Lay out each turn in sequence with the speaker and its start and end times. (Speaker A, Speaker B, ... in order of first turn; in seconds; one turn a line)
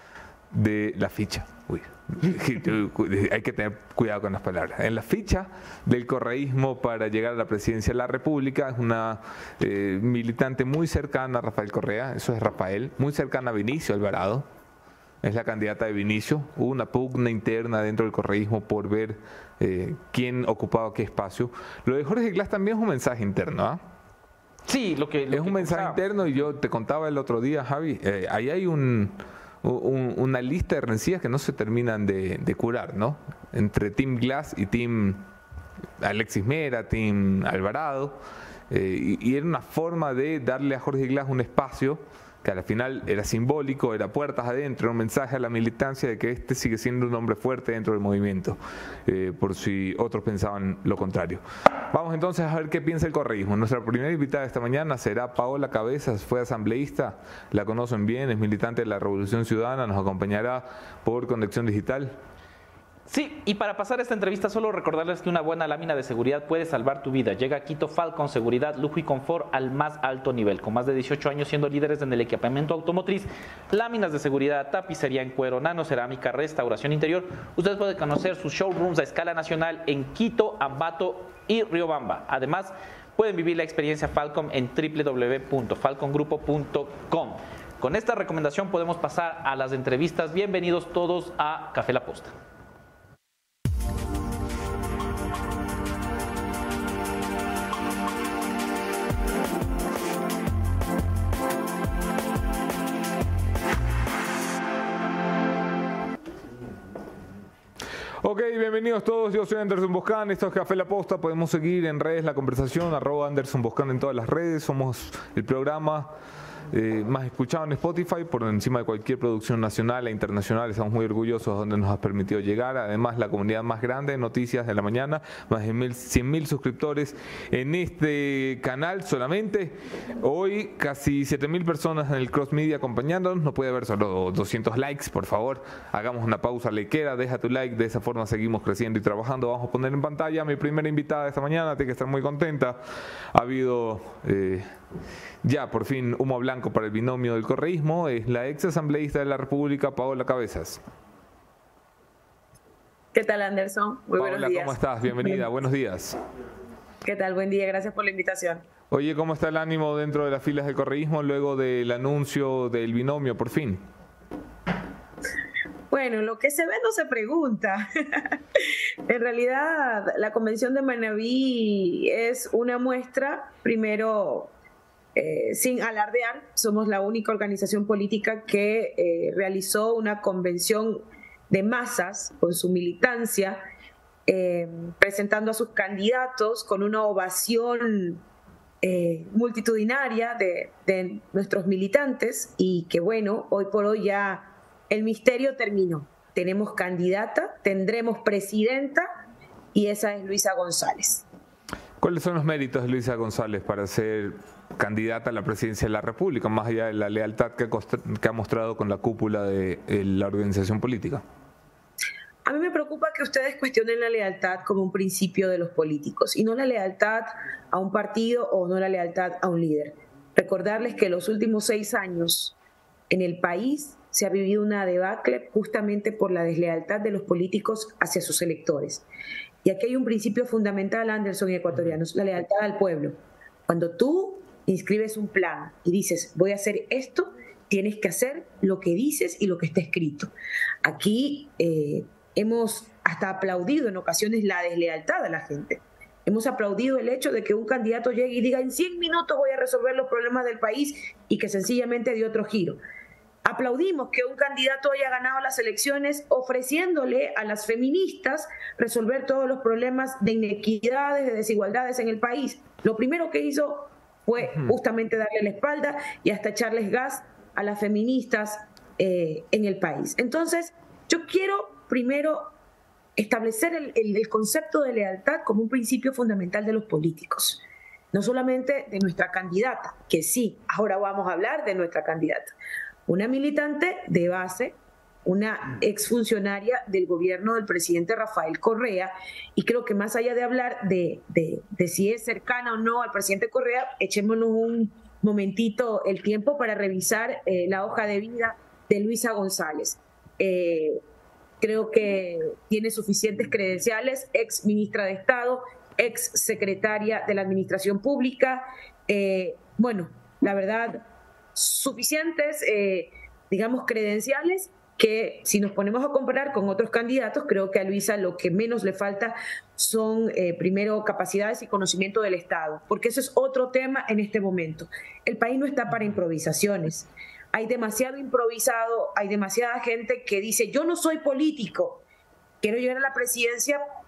Speaker A: 0.5-14.4
Speaker A: 15.2-23.8
Speaker B: 24.6-26.0
Speaker A: 25.3-35.3
Speaker A: 36.0-38.2
Speaker A: 38.7-62.2
Speaker B: 63.1-92.3
Speaker A: 108.2-116.1
Speaker A: 116.7-142.8
Speaker A: 143.3-144.7
Speaker A: 145.4-150.8
Speaker C: 153.1-155.4
Speaker A: 154.2-156.2
Speaker C: 157.0-158.6
Speaker A: 158.9-163.8
Speaker C: 165.9-168.3
Speaker C: 169.1-174.5
Speaker C: 175.2-183.6
Speaker C: 184.3-188.2
Speaker C: 188.8-199.1
Speaker C: 199.7-201.2
Speaker A: 202.0-211.2
Speaker C: 212.4-222.5
Speaker C: 223.1-229.0
Speaker C: 229.6-240.3
Speaker C: 240.8-252.8
Speaker C: 253.4-272.5
Speaker A: 264.4-264.8
Speaker C: 273.2-277.6
Speaker C: 278.1-282.5
Speaker C: 283.1-301.0
Speaker C: 301.6-311.0
Speaker C: 311.6-332.0
Speaker C: 332.6-333.8